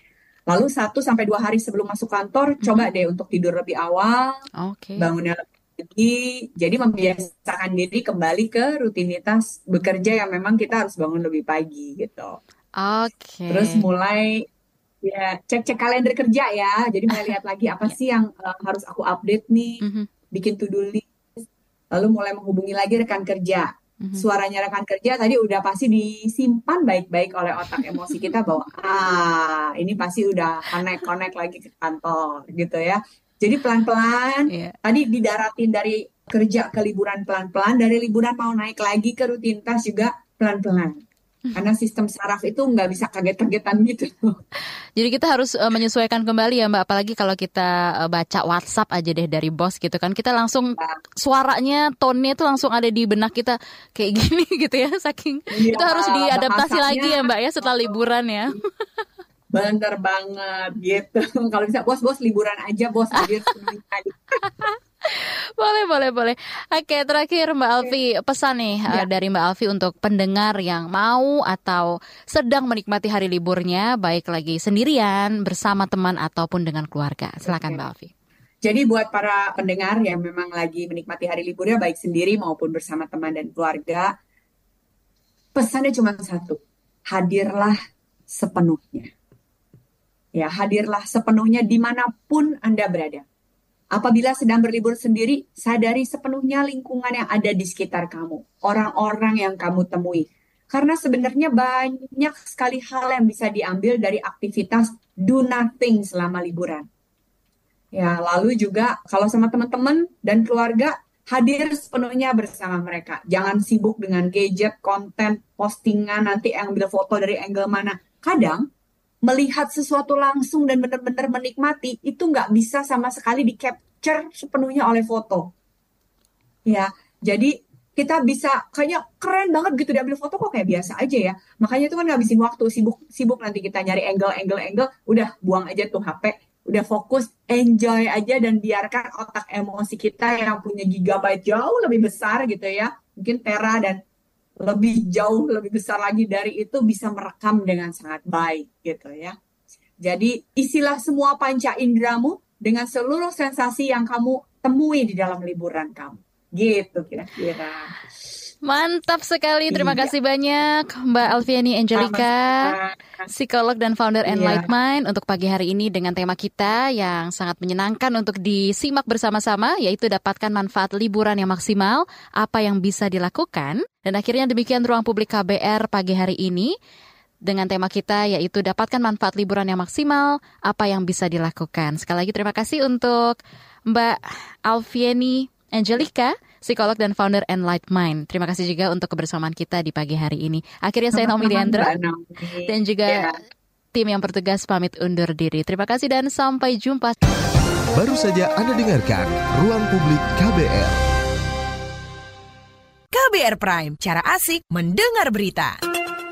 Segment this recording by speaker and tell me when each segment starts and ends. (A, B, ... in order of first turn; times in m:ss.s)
0:00.5-0:04.3 A
0:02.6-0:02.9 B
0:04.6-0:05.1 B
0:05.0-0:12.4 A
0:12.8-0:13.8 B
0:13.5-0:14.5 A
0:15.0-0:19.8 A
0:19.8-0:20.1 B
0:20.3-0:41.0 A
0:27.7-0:28.4 B
0:34.5-0:34.8 B
0:41.6-0:44.4 A
0:45.0-0:58.6 B
0:55.5-0:58.1 A
0:59.5-1:04.6 A
1:03.2-1:03.5 B
1:04.4-1:18.1 B
1:17.5-1:17.8 A
1:18.6-1:24.1 A
1:25.6-1:26.6 A
1:27.1-1:27.8 A
1:28.3-1:29.1 A
1:30.4-1:33.2 A
1:33.9-1:46.9 A
1:48.0-1:58.6 A
1:59.2-2:05.5 A
2:06.7-2:24.0 A
2:24.6-2:29.4 A
2:30.0-2:38.0 A
2:38.6-2:42.7 B
2:39.7-2:40.1 A
2:42.0-2:43.3 A
2:43.3-2:56.7 B
2:44.3-2:44.7 A
2:57.5-3:03.4 B
3:03.9-3:11.9 B
3:11.2-3:13.4 A
3:12.7-3:13.3 B
3:14.0-3:17.2 B
3:18.0-3:21.0 C
3:23.1-3:25.8 D